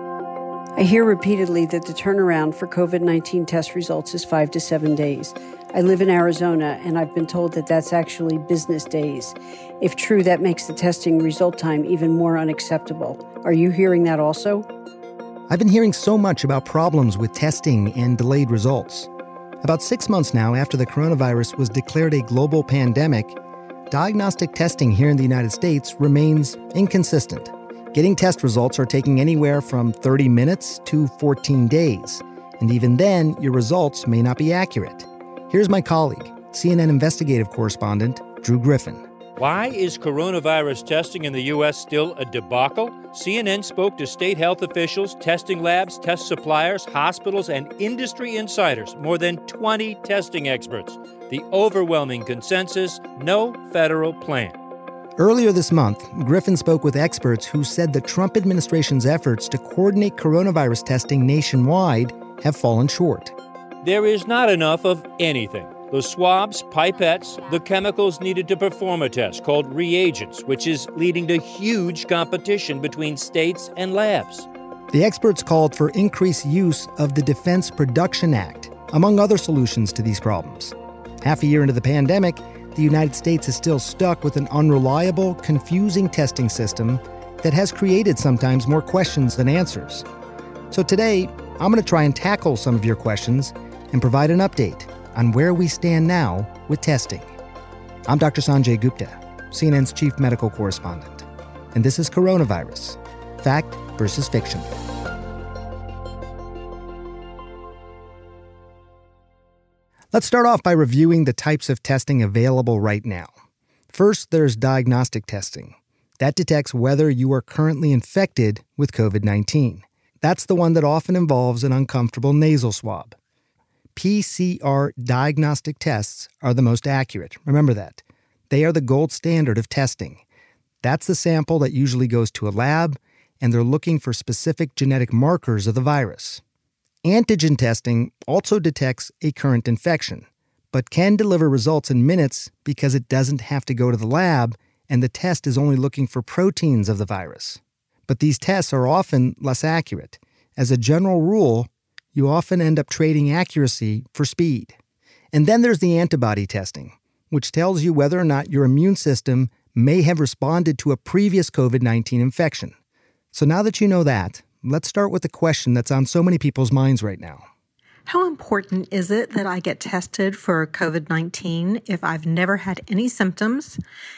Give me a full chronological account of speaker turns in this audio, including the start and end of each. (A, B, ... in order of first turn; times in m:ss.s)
0:00.8-0:14.7 A
0:15.5-0:19.1 B
0:19.6-0:23.4 B
0:23.9-0:39.0 B
0:39.4-0:54.6 C
0:55.2-1:03.3 B
1:03.8-1:14.5 C
1:14.9-1:30.1 B
1:30.7-1:37.3 B
1:38.1-1:44.7 B
1:50.1-1:53.3 B
1:53.9-2:03.2 B
2:03.9-2:10.2 B
2:10.8-2:16.4 B
2:17.0-2:34.8 B
2:35.3-2:42.8 B
2:43.3-2:47.4 B
2:48.1-2:53.8 D